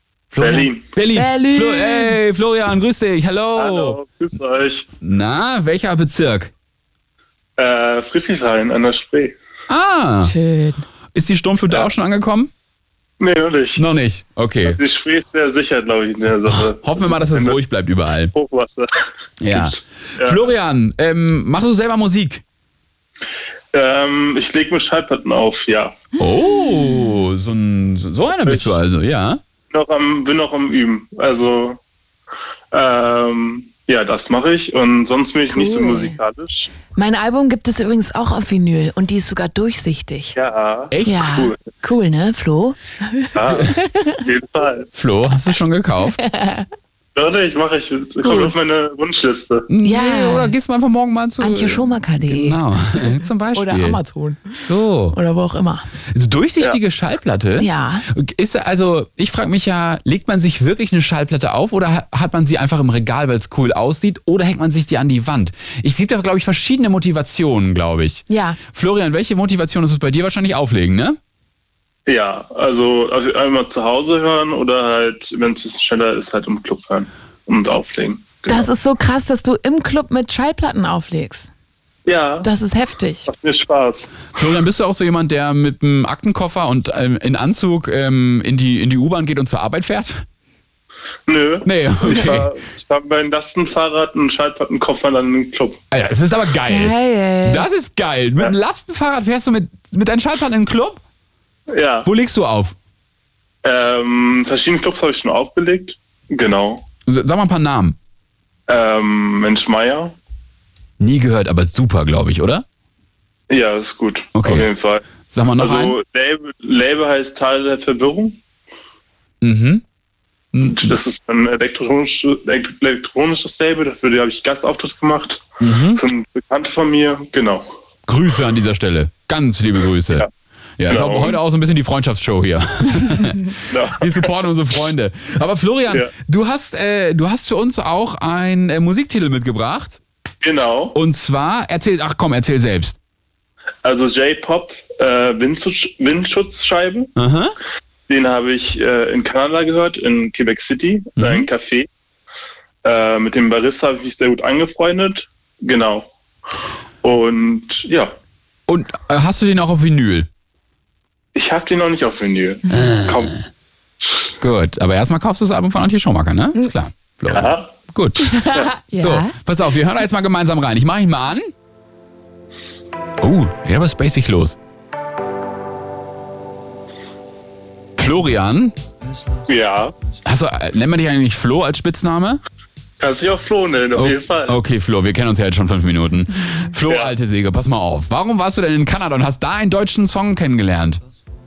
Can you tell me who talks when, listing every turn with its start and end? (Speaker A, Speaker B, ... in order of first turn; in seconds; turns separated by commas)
Speaker A: 0.3-4.0, Speaker B: 0.4-0.9, Speaker C: 1.1-2.2, Speaker B: 3.5-4.9, Speaker A: 5.0-6.5, Speaker B: 7.6-9.4, Speaker A: 9.7-10.3, Speaker C: 10.2-10.8, Speaker A: 11.1-12.5, Speaker B: 13.2-13.8, Speaker A: 13.8-14.8, Speaker B: 14.7-17.6, Speaker A: 16.5-18.3, Speaker B: 18.3-18.9, Speaker A: 19.4-22.4, Speaker B: 19.5-20.5, Speaker B: 23.7-26.0, Speaker A: 26.2-29.4, Speaker C: 26.2-27.0, Speaker B: 28.4-28.8, Speaker B: 29.7-31.8, Speaker B: 32.7-36.7, Speaker C: 35.5-36.2, Speaker C: 36.9-40.4, Speaker B: 40.4-41.6, Speaker A: 40.9-41.4, Speaker C: 41.0-44.2, Speaker B: 43.4-43.7, Speaker A: 43.5-43.7, Speaker B: 44.2-44.9, Speaker A: 45.0-46.2, Speaker C: 46.2-46.7, Speaker B: 47.1-49.7, Speaker C: 48.2-48.5, Speaker A: 49.7-54.0, Speaker C: 49.8-50.5, Speaker C: 51.4-55.9, Speaker A: 54.7-55.2, Speaker A: 56.1-71.2, Speaker C: 57.6-58.0, Speaker C: 68.3-68.6, Speaker B: 72.1-78.7, Speaker C: 78.5-81.5, Speaker B: 82.1-82.5, Speaker C: 82.4-83.3, Speaker B: 83.3-84.2, Speaker A: 84.3-90.2, Speaker B: 91.3-95.8, Speaker A: 91.7-92.5, Speaker A: 95.9-96.9, Speaker C: 96.7-97.7, Speaker A: 97.5-101.0, Speaker B: 101.7-102.1, Speaker A: 102.0-102.8, Speaker B: 103.6-106.8, Speaker A: 107.1-108.0, Speaker B: 108.7-110.2, Speaker A: 111.0-112.6, Speaker B: 113.5-115.0, Speaker A: 114.3-114.7, Speaker A: 115.2-116.0, Speaker B: 115.5-118.4, Speaker A: 119.4-119.8, Speaker A: 120.5-121.0, Speaker B: 120.6-127.7, Speaker A: 125.6-126.0, Speaker A: 128.1-130.3, Speaker A: 130.8-140.0, Speaker B: 130.9-131.4, Speaker B: 133.7-134.3, Speaker B: 140.4-141.0, Speaker A: 140.9-143.0, Speaker B: 143.8-147.1, Speaker A: 147.2-147.5, Speaker B: 148.1-151.9, Speaker A: 151.2-151.5, Speaker B: 152.8-156.1, Speaker B: 157.0-158.1, Speaker A: 158.7-160.3, Speaker B: 161.3-163.3, Speaker A: 162.7-163.4, Speaker A: 164.4-168.4, Speaker B: 167.3-167.8, Speaker C: 168.2-169.3, Speaker A: 168.9-171.5, Speaker A: 173.2-174.6, Speaker A: 178.0-178.8, Speaker B: 179.5-179.9, Speaker A: 180.3-182.4, Speaker B: 183.0-184.6, Speaker A: 184.0-191.0, Speaker B: 186.9-187.1